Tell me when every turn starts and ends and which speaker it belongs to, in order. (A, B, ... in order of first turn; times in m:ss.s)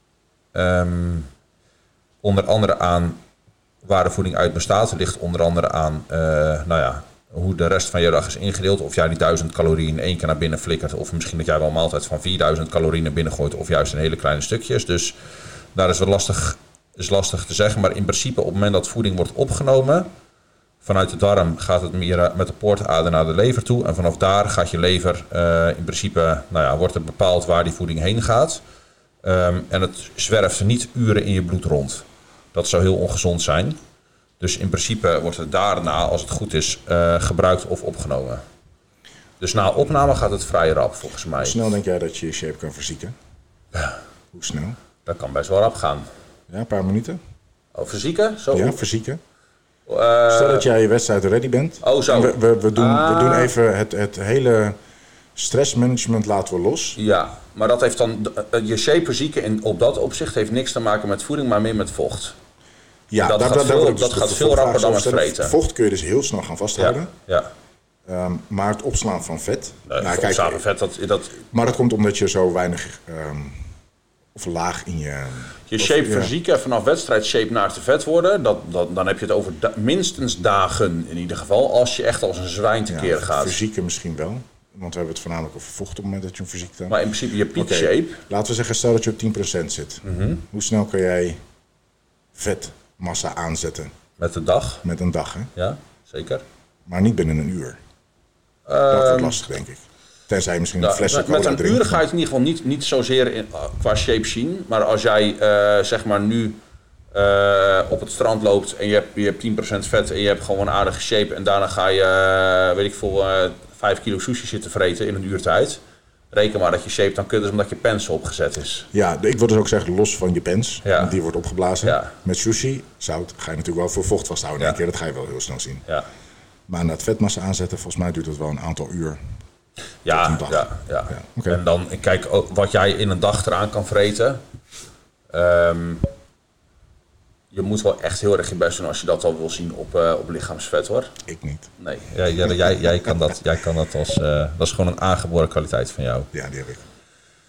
0:00.5-0:01.3 A
0:02.2-0:03.2 A
0:03.8-0:15.2 A
0:15.7-0:20.1 A
0:20.8-0:28.6 A
0:29.2-0:33.8 A
0:34.4-0:38.4 A
0:39.4-0:41.7 A
0:41.4-0:43.1 B
0:44.3-0:44.8 B
0:45.0-0:46.1 A
0:46.5-0:47.2 B
0:47.7-0:48.8 A
0:48.5-0:49.2 B
0:49.9-0:50.7 A
0:50.3-0:54.8 B
0:51.8-0:53.5 A
0:55.4-0:57.0 B
0:57.0-1:02.4 A
1:03.1-1:07.1 B
1:03.2-1:05.5 A
1:06.8-1:07.5 A
1:08.0-1:10.6 B
1:09.9-1:11.4 A
1:11.5-1:13.6 B
1:14.3-1:16.3 B
1:15.7-1:23.6 A
1:22.9-1:27.0 B
1:26.9-1:28.2 A
1:27.5-1:31.4 B
1:30.0-1:30.4 A
1:32.3-1:33.9 B
1:34.2-1:34.8 A
1:34.8-1:35.5 B
1:35.6-1:36.4 A
1:36.9-1:37.8 B
1:38.7-1:39.4 A
1:38.9-1:42.0 B
1:40.8-1:46.6 A
1:47.1-1:55.8 A
1:56.3-1:58.9 A
1:58.9-2:05.8 B
2:00.8-2:01.1 A
2:01.8-2:02.1 A
2:06.7-2:09.2 B
2:10.0-2:14.4 A
2:10.1-2:11.6 B
2:15.3-2:16.1 A
2:17.5-2:21.1 A
2:21.2-2:21.7 B
2:21.8-2:26.3 A
2:26.3-2:26.8 B